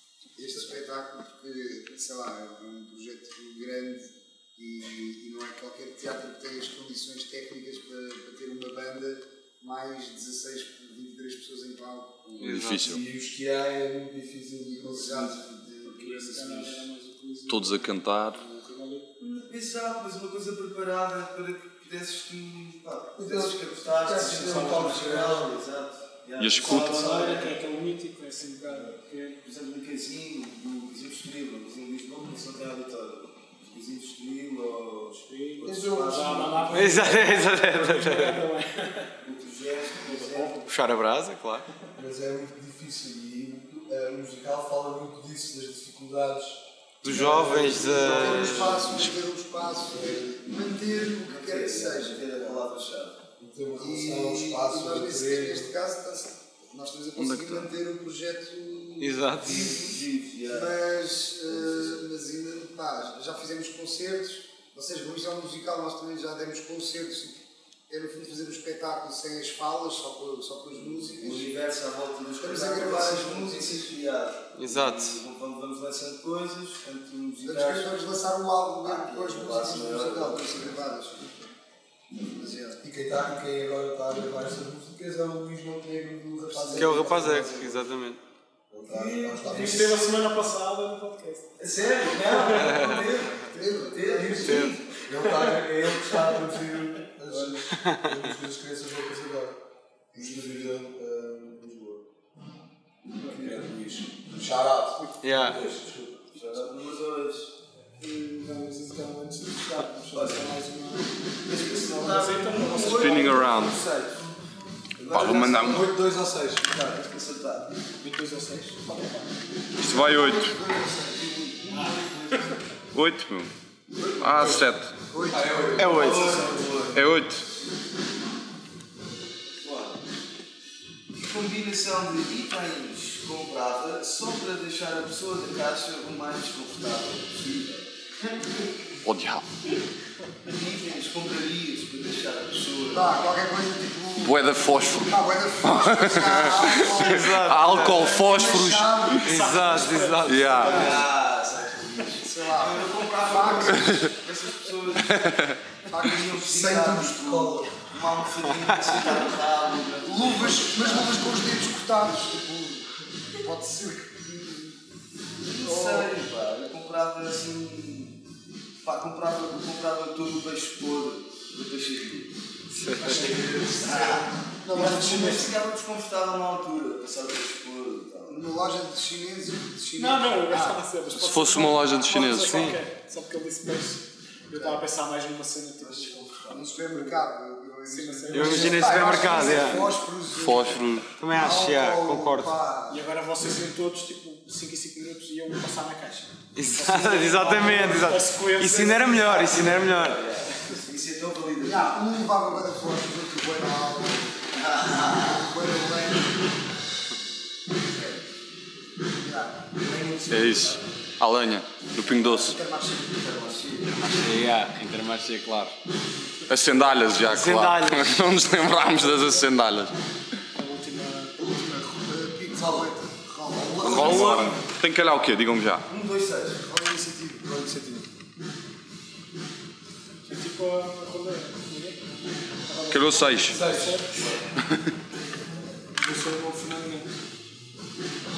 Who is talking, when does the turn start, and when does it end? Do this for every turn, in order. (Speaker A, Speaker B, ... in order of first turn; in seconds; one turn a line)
Speaker A: 0.4-12.5
Speaker B: 12.4-12.9
Speaker C: 12.4-13.0
Speaker D: 12.8-15.5
Speaker A: 14.7-16.8
Speaker E: 15.8-19.1
Speaker C: 17.5-18.4
Speaker F: 19.2-27.6
Speaker D: 23.2-25.6
Speaker C: 26.4-27.0
Speaker E: 26.6-29.4
Speaker F: 29.4-37.2
Speaker E: 35.2-39.1
Speaker D: 35.6-36.6
Speaker B: 36.7-38.5
Speaker F: 39.2-40.6
Speaker E: 40.0-40.7
Speaker B: 40.7-41.7
Speaker D: 42.0-49.0
Speaker B: 47.0-48.9
Speaker A: 47.2-52.3
Speaker F: 47.5-48.8
Speaker D: 49.9-50.3
Speaker F: 51.3-53.2
Speaker D: 53.4-55.7
Speaker A: 53.8-67.4
Speaker C: 57.2-57.7
Speaker B: 59.0-59.8
Speaker F: 59.4-60.8
Speaker F: 61.5-62.0
Speaker A: 67.9-71.5
Speaker F: 71.1-77.9
Speaker A: 72.4-73.9
Speaker B: 74.6-75.2
Speaker A: 77.4-81.4
Speaker F: 78.8-80.9
Speaker A: 82.2-82.8
Speaker D: 82.8-87.9
Speaker A: 86.5-87.5
Speaker B: 86.8-88.2
Speaker D: 88.7-90.0
Speaker F: 88.9-90.1
Speaker E: 89.4-91.5
Speaker F: 91.6-96.1
Speaker E: 92.2-93.0
Speaker B: 92.5-93.1
Speaker A: 93.5-94.7
Speaker D: 94.1-99.6
Speaker B: 94.5-94.8
Speaker B: 97.7-98.2
Speaker D: 100.1-102.0
Speaker D: 103.2-106.3
Speaker B: 105.2-105.6
Speaker F: 106.3-107.5
Speaker E: 108.0-113.5
Speaker F: 110.2-110.4
Speaker F: 111.5-114.2
Speaker C: 112.8-113.8
Speaker F: 115.0-116.0
Speaker D: 115.1-117.0
Speaker C: 115.1-115.9
Speaker F: 116.8-117.7
Speaker E: 118.0-119.4
Speaker C: 119.8-120.5
Speaker A: 119.8-121.8
Speaker E: 121.7-122.6
Speaker C: 122.9-123.5
Speaker C: 124.2-124.9
Speaker A: 125.1-125.8
Speaker D: 125.3-127.0
Speaker B: 125.8-126.4
Speaker F: 125.8-127.0
Speaker C: 126.9-127.4
Speaker F: 129.6-130.0
Speaker F: 131.2-137.9
Speaker C: 139.0-139.4
Speaker F: 140.5-143.2
Speaker A: 142.9-149.8
Speaker C: 144.2-149.2
Speaker B: 146.9-148.1
Speaker E: 149.1-151.1
Speaker B: 149.2-151.1
Speaker C: 150.2-151.0
Speaker F: 150.6-161.2
Speaker A: 152.2-154.1
Speaker A: 155.9-156.4
Speaker D: 156.5-157.8
Speaker A: 160.1-164.8
Speaker F: 165.4-168.2
Speaker A: 165.6-166.1
Speaker F: 168.8-172.3
Speaker B: 172.7-173.3
Speaker E: 173.0-174.1
Speaker F: 173.0-178.4
Speaker A: 173.9-174.2
Speaker E: 174.6-175.6
Speaker A: 178.3-180.8
Speaker E: 180.0-186.3
Speaker C: 181.1-182.8
Speaker A: 184.6-184.8
Speaker F: 185.8-186.9
Speaker A: 186.5-193.0
Speaker E: 187.9-189.7
Speaker B: 188.3-189.9
Speaker D: 188.5-189.0
Speaker C: 190.3-191.1
Speaker B: 191.1-192.5
Speaker E: 192.9-199.8
Speaker B: 196.6-200.3
Speaker F: 199.0-202.1
Speaker A: 201.6-206.4
Speaker F: 204.6-205.3
Speaker A: 207.8-208.2
Speaker A: 209.2-209.7
Speaker F: 209.7-210.9
Speaker C: 210.3-212.6
Speaker A: 212.1-214.0
Speaker F: 213.4-214.1
Speaker B: 214.0-215.8
Speaker C: 216.5-219.9
Speaker B: 217.2-218.4
Speaker A: 218.8-219.3
Speaker E: 220.6-221.4
Speaker A: 221.4-224.5
Speaker D: 223.5-224.5
Speaker F: 223.8-224.5
Speaker C: 223.8-225.8
Speaker F: 225.9-226.6
Speaker A: 226.6-228.0
Speaker E: 230.3-232.0
Speaker E: 232.7-234.3
Speaker C: 232.9-233.6
Speaker D: 233.4-234.4
Speaker E: 236.0-237.1